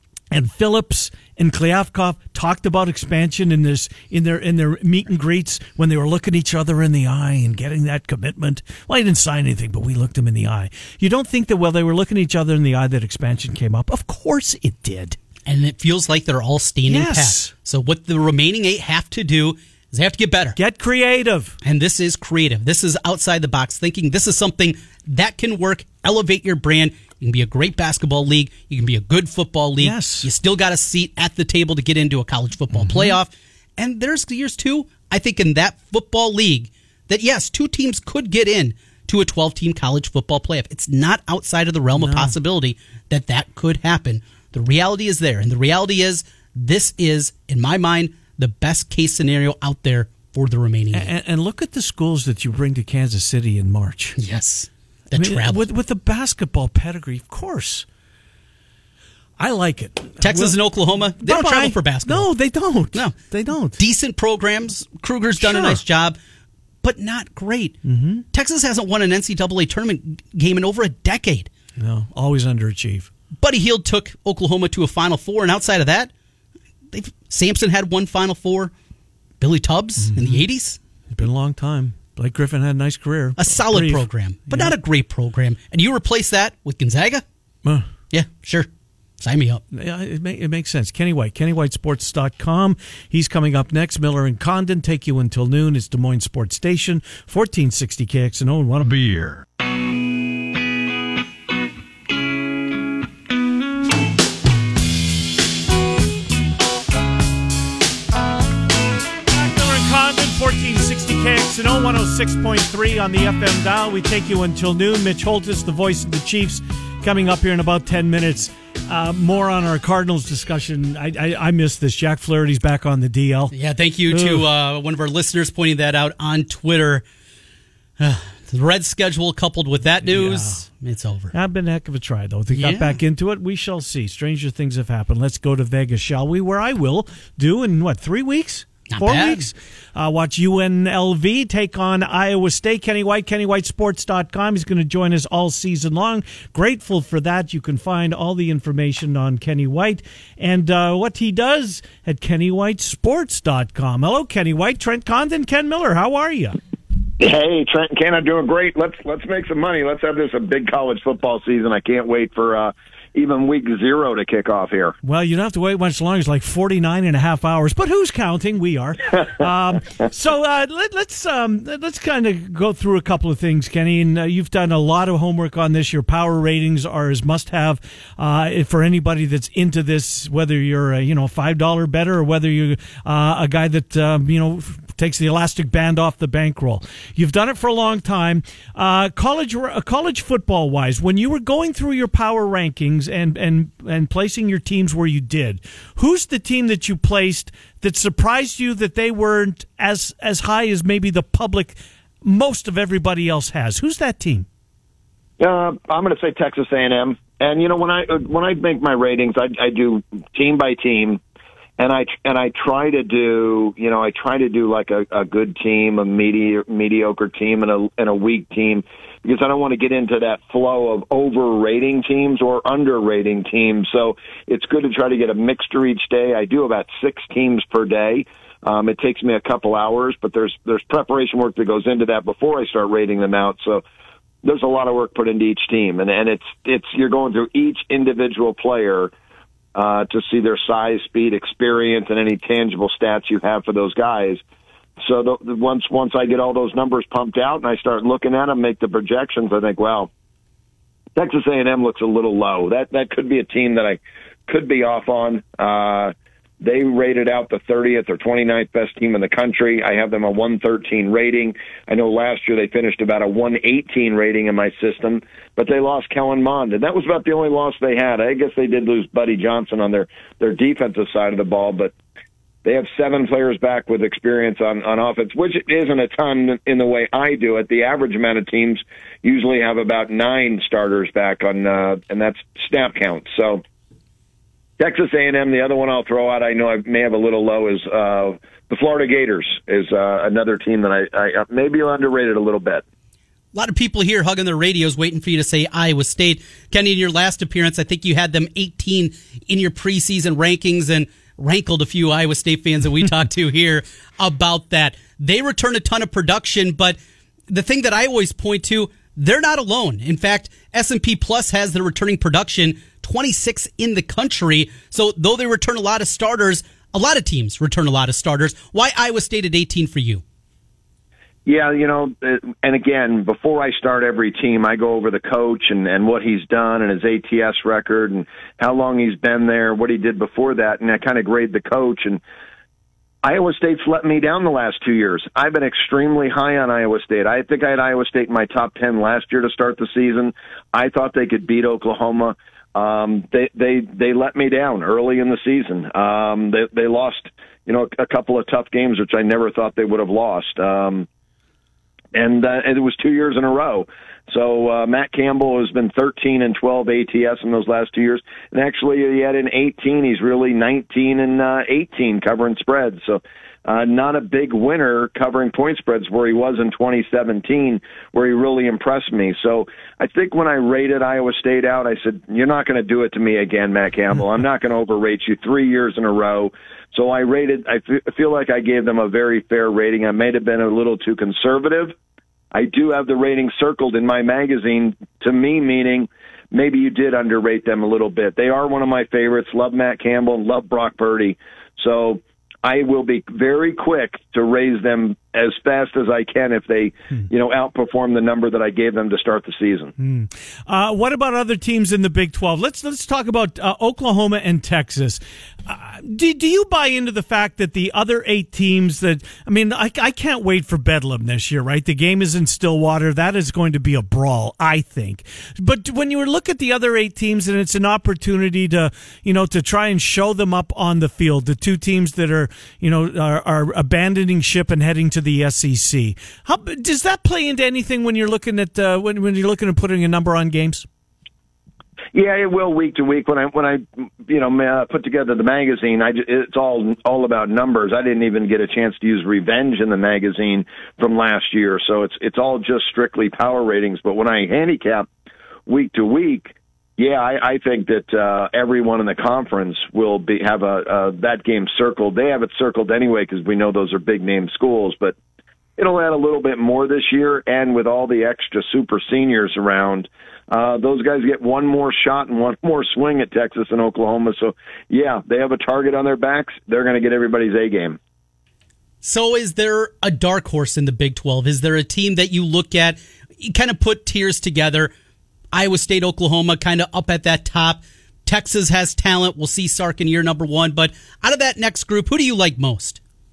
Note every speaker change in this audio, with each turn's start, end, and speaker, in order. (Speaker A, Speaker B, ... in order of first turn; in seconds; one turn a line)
Speaker A: 0.3-15.2
Speaker B: 15.4-20.6
Speaker A: 16.9-17.5
Speaker A: 20.6-21.6
Speaker B: 21.6-51.1
Speaker A: 29.8-30.3
Speaker A: 32.7-33.1
Speaker A: 41.9-42.4
Speaker A: 50.9-54.2
Speaker B: 54.2-55.6
Speaker A: 55.1-57.9
Speaker A: 59.4-60.6
Speaker B: 60.2-62.3
Speaker A: 61.2-63.8
Speaker B: 63.8-66.2
Speaker A: 65.4-65.8
Speaker B: 66.8-67.8
Speaker A: 67.8-68.2
Speaker B: 68.3-71.5
Speaker A: 71.8-73.1
Speaker B: 73.4-76.1
Speaker B: 76.9-78.7
Speaker B: 79.4-80.8
Speaker A: 80.0-80.4
Speaker A: 81.1-84.7
Speaker B: 83.4-87.2
Speaker B: 88.1-88.7
Speaker B: 89.2-89.6
Speaker A: 89.7-99.4
Speaker A: 109.3-123.5
Speaker B: 123.5-127.0
Speaker A: 124.1-124.5
Speaker B: 128.0-131.3
Speaker A: 130.0-130.6
Speaker A: 131.3-156.6
Speaker B: 132.5-133.0
Speaker B: 138.9-139.4
Speaker C: 157.2-164.9
Speaker A: 165.0-204.4
Speaker C: 205.4-211.2
Speaker C: 211.8-233.8
Speaker C: 234.4-239.1
Speaker C: 239.7-244.4
Speaker C: 245.0-250.1
Speaker C: 251.2-271.9
Speaker C: 272.6-283.6
Speaker C: 284.8-292.8
Speaker B: 293.5-307.0
Speaker B: 307.5-320.2
Speaker C: 321.4-332.2
Speaker C: 333.2-351.1
Speaker C: 352.1-381.9
Speaker C: 382.5-399.9
Speaker A: 400.0-430.9
Speaker C: 432.1-445.1
Speaker C: 445.7-455.1
Speaker C: 455.8-468.0
Speaker B: 469.0-474.9
Speaker B: 475.5-483.0